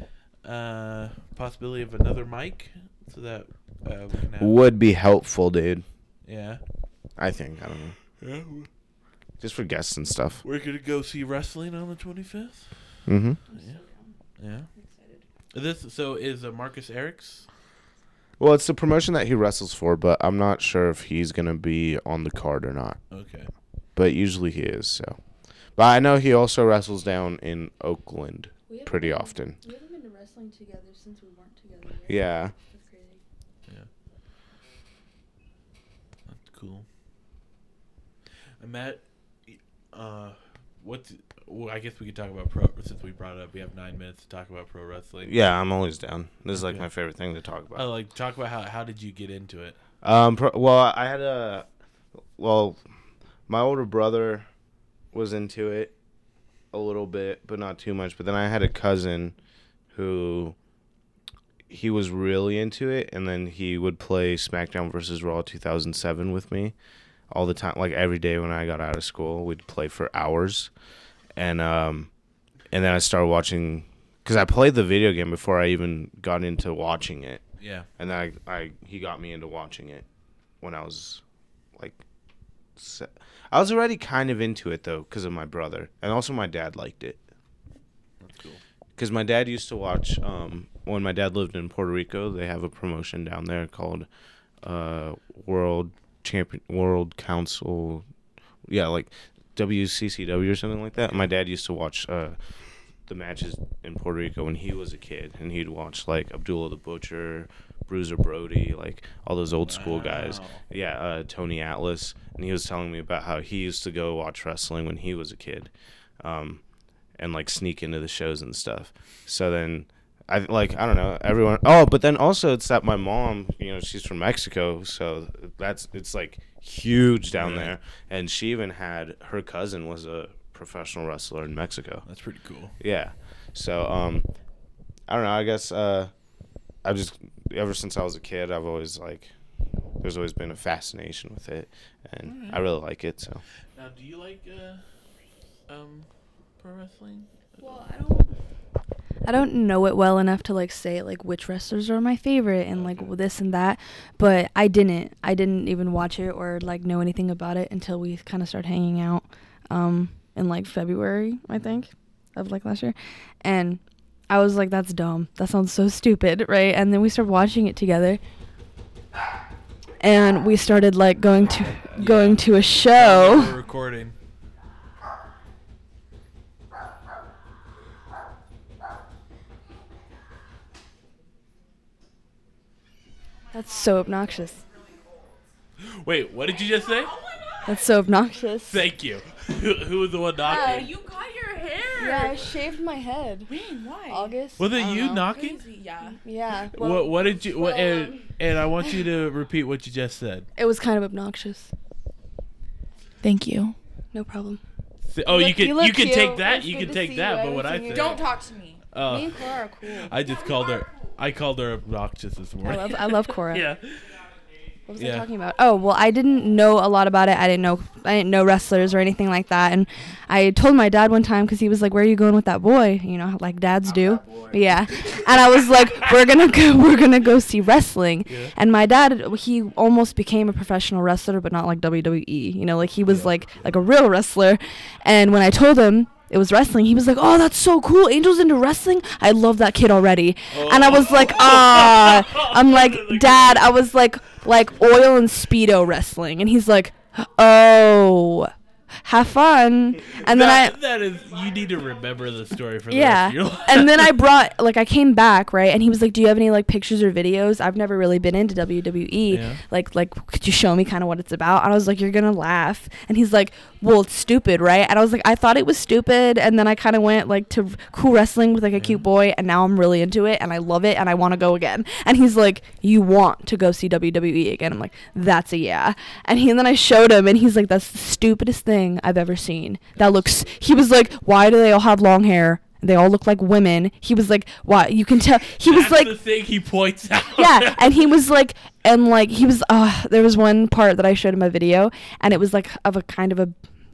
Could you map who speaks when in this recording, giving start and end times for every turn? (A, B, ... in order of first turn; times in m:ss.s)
0:00.4-0:04.6 A
0:04.4-0:05.8 B
0:06.2-0:06.6 A
0:07.2-0:08.0 B
0:08.2-0:08.7 A
0:09.4-0:10.4 B
0:10.4-0:13.0 A
0:13.1-0:13.4 B
0:13.5-0:14.2 C
0:14.4-0:14.7 A
0:14.8-0:15.2 C
0:15.5-0:17.5 A
0:18.4-0:23.0 B
0:23.1-0:23.5 A
0:24.0-0:25.2 B
0:25.8-0:29.6 B
0:28.7-0:33.2 C
0:32.1-0:32.5 B
0:36.3-0:36.9 A
0:38.6-0:45.4 A
0:45.2-0:47.9 B
0:46.5-0:46.9 A
0:47.8-0:49.8 A
0:50.0-0:51.7 B
0:52.4-0:52.8 B
0:53.5-0:54.5 B
0:55.1-0:55.9 B
0:56.7-0:59.4 B
0:59.9-1:00.6 B
1:01.7-1:06.8 B
1:07.3-1:10.7 B
1:11.4-1:12.1 B
1:12.7-1:17.4 B
1:17.6-1:17.9 A
1:18.0-1:20.0 B
1:20.6-1:21.2 B
1:21.8-1:22.0 B
1:22.8-1:27.2 B
1:28.2-1:28.6 A
1:29.0-1:34.1 B
1:34.6-1:38.0 B
1:38.7-1:42.4 B
1:43.1-1:56.6 B
1:49.6-1:50.6 A
1:57.2-2:12.0 B
2:07.3-2:07.7 A
2:12.0-2:12.8 A
2:12.8-2:14.3 B
2:15.1-2:16.1 B
2:16.8-2:19.3 B
2:20.0-2:23.4 B
2:22.2-2:22.6 A
2:23.8-2:24.8 A
2:25.7-2:26.1 A
2:26.6-2:27.8 A
2:27.6-2:28.3 C
2:29.2-2:48.2 C
2:32.7-2:33.1 A
2:41.5-2:41.8 A
2:50.0-2:53.6 C
2:51.4-2:54.2 A
3:03.5-3:04.6 C
3:05.8-3:07.2 A
3:07.1-3:07.7 D
3:07.6-3:08.8 C
3:08.7-3:10.9 A
3:10.4-3:12.5 D
3:10.4-3:10.9 C
3:12.0-3:13.5 C
3:13.5-3:14.4 D
3:14.1-3:15.3 C
3:14.6-3:15.6 A
3:15.3-3:16.2 D
3:16.0-3:18.3 C
3:16.7-3:20.5 A
3:20.6-3:21.7 C
3:23.2-3:23.8 D
3:24.1-3:24.6 C
3:25.1-3:28.2 A
3:25.3-3:28.3 C
3:27.9-3:28.8 D
3:28.9-3:29.4 A
3:29.0-3:30.2 C
3:30.0-3:34.0 A
3:32.6-3:33.7 C
3:34.9-4:08.5 C
3:35.0-3:35.3 A
3:43.8-3:44.6 B
3:48.3-3:48.5 A
3:53.1-3:53.3 A
4:00.5-4:03.8 A
4:09.0-4:10.8 C
4:10.2-4:14.2 A
4:12.9-4:46.2 C
4:19.3-4:19.6 A
4:28.8-4:29.0 A
4:40.0-4:40.6 B
4:45.6-4:48.0 A
4:47.4-4:53.6 C